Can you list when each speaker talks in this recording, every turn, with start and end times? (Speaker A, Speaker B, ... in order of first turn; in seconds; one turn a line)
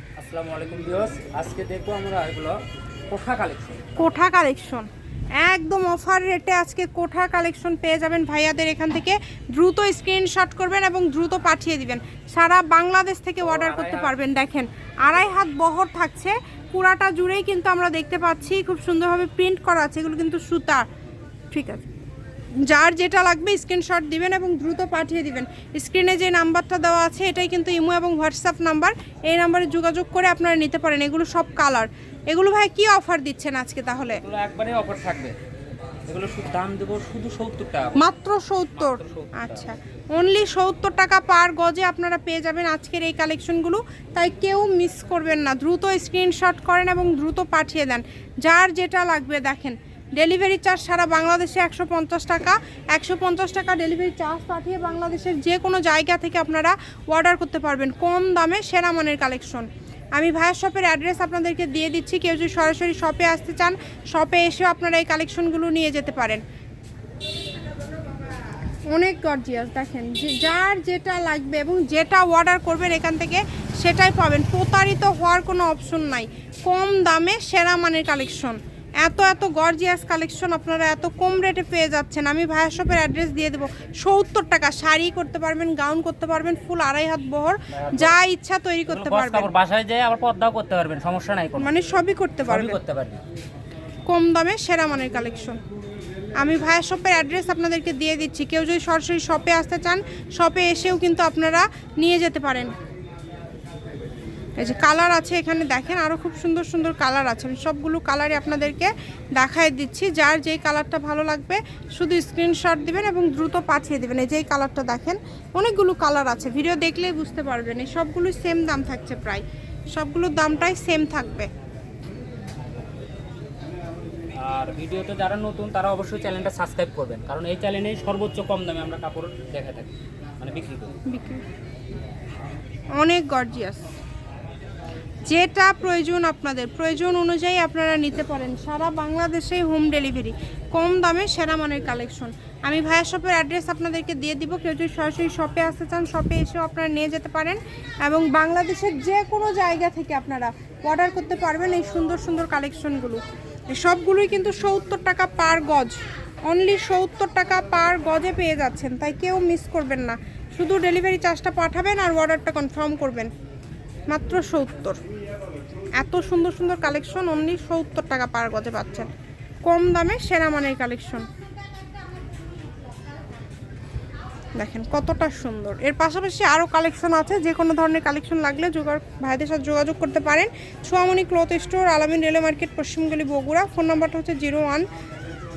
Speaker A: 0.2-2.5
Speaker A: 3.1-4.1
Speaker B: 4.0-20.9
Speaker A: 13.4-14.2
Speaker B: 21.5-21.8
Speaker B: 22.6-34.2
Speaker A: 34.2-35.3
Speaker A: 36.1-38.1
Speaker B: 38.0-66.4
Speaker A: 38.7-39.7
Speaker B: 68.9-89.5
Speaker A: 87.7-88.2
Speaker A: 88.8-91.7
Speaker B: 91.6-92.8
Speaker A: 92.5-93.2
Speaker B: 94.1-95.6
Speaker B: 96.3-102.7
Speaker B: 104.6-119.4
Speaker B: 119.9-121.5
Speaker A: 124.3-130.9
Speaker B: 131.1-131.4
Speaker B: 132.9-133.8
Speaker B: 135.2-163.3
Speaker B: 164.1-165.0
Speaker B: 166.0-169.1
Speaker B: 169.7-171.3
Speaker B: 174.6-184.9